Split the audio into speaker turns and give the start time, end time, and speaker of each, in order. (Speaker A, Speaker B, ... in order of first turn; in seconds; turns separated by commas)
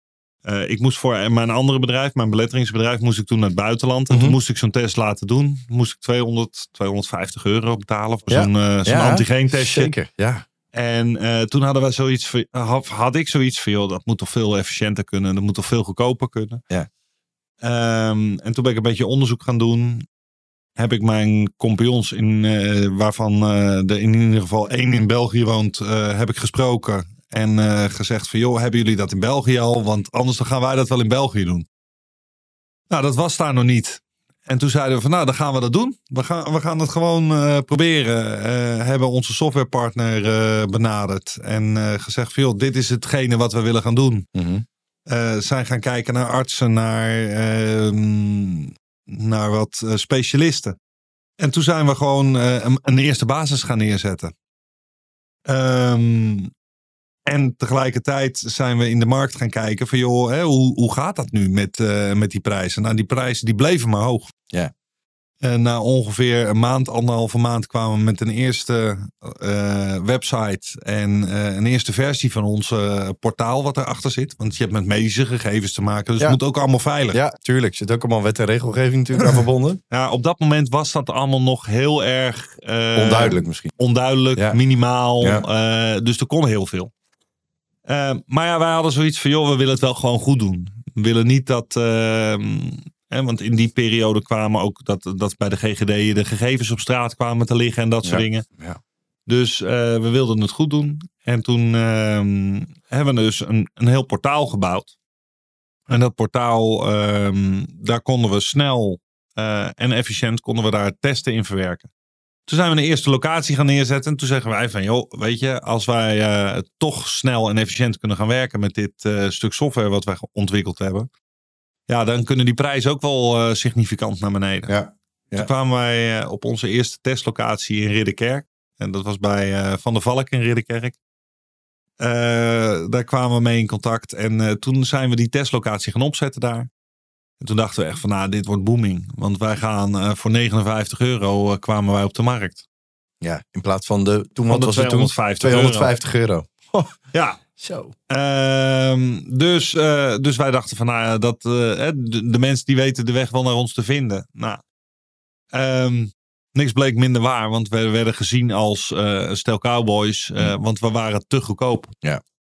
Speaker A: 0.5-9.9, Speaker B: 4.1-4.4, Speaker B: 8.3-10.4, Speaker A: 10.7-16.6, Speaker A: 17.6-20.1, Speaker A: 20.8-31.7, Speaker A: 32.9-44.3, Speaker B: 44.4-44.6, Speaker A: 45.1-50.8, Speaker A: 51.4-54.3, Speaker A: 55.5-56.5, Speaker A: 57.3-64.3, Speaker A: 65.4-77.2, Speaker B: 77.1-79.8, Speaker A: 79.9-86.9, Speaker B: 83.0-83.7, Speaker A: 87.9-98.5, Speaker B: 98.0-98.8, Speaker A: 99.3-104.9, Speaker A: 105.9-111.9, Speaker A: 112.5-121.1, Speaker A: 121.9-124.7, Speaker B: 124.7-125.5, Speaker A: 125.3-131.0, Speaker A: 132.0-136.7, Speaker A: 137.4-142.6, Speaker B: 143.2-146.9, Speaker A: 144.5-145.9, Speaker A: 147.1-147.4, Speaker B: 147.6-147.9, Speaker A: 148.1-154.6, Speaker A: 155.5-161.9